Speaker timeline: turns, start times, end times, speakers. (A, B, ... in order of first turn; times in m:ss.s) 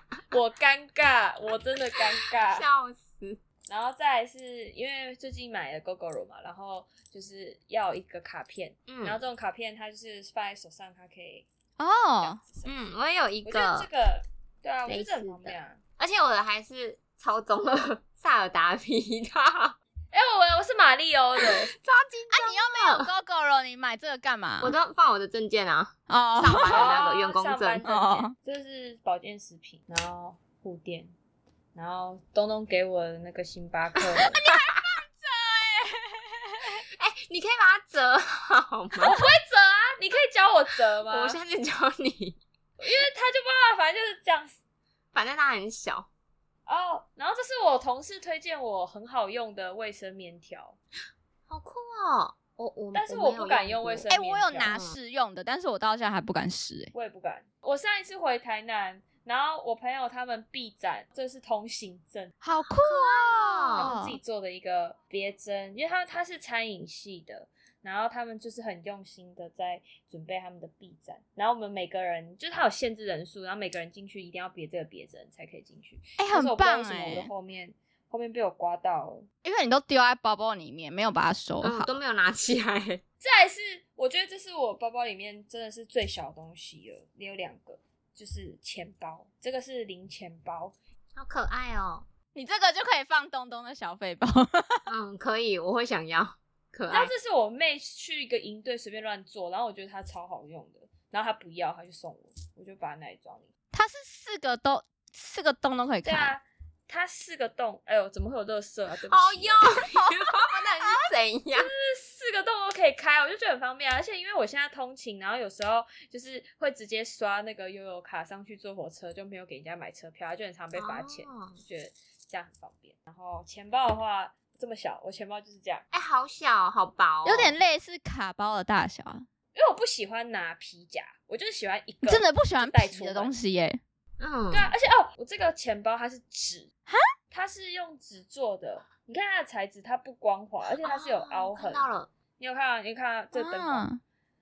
0:00.3-0:02.7 A
0:02.5-0:03.4 B
0:03.7-0:11.5 A
0:08.9-0:09.2 B
0:11.8-0:12.4 C
0:12.2-0:12.8 A
0:12.6-0:13.9 B
0:13.4-0:15.8 A
0:14.9-0:19.8 B
0:20.1-0:21.7 A
0:21.4-0:23.1 B
0:22.3-0:24.8 C
0:24.6-0:27.8 B
0:26.1-0:27.0 C
0:26.6-0:31.1 A
0:27.8-0:28.3 C
0:31.8-0:34.4 A
0:34.3-0:36.8 C
0:34.4-0:34.8 B
0:37.0-0:39.2 B
0:39.0-0:41.4 A
0:41.1-0:42.4 B
0:42.8-0:44.6 A
0:45.1-0:46.1 B
0:46.7-0:50.8 A
0:51.5-0:54.1 B
0:52.9-0:54.7 A
0:54.1-0:56.9 C
0:54.6-0:55.0 B
0:56.9-1:02.4 A
1:02.4-1:04.2 C
1:02.6-1:03.9 B
1:03.8-1:19.3 A
1:16.2-1:17.3 C
1:19.4-1:21.9 C
1:21.6-1:23.0 B
1:23.2-1:30.7 A
1:31.1-1:32.1 B
1:32.4-1:34.9 C
1:34.9-1:37.1 B
1:36.9-1:43.5 A
1:43.7-1:46.3 C
1:46.0-1:49.7 A
1:49.1-1:51.7 B
1:50.3-1:51.1 C
1:51.6-2:05.8 A
2:00.8-2:01.6 B
2:05.9-2:07.6 B
2:07.2-2:09.3 C
2:09.5-2:13.3 A
2:12.0-2:13.8 C
2:14.2-2:14.7 B
2:14.5-2:16.7 A
2:17.3-2:23.9 A
2:20.8-2:22.1 B
2:23.3-2:24.0 C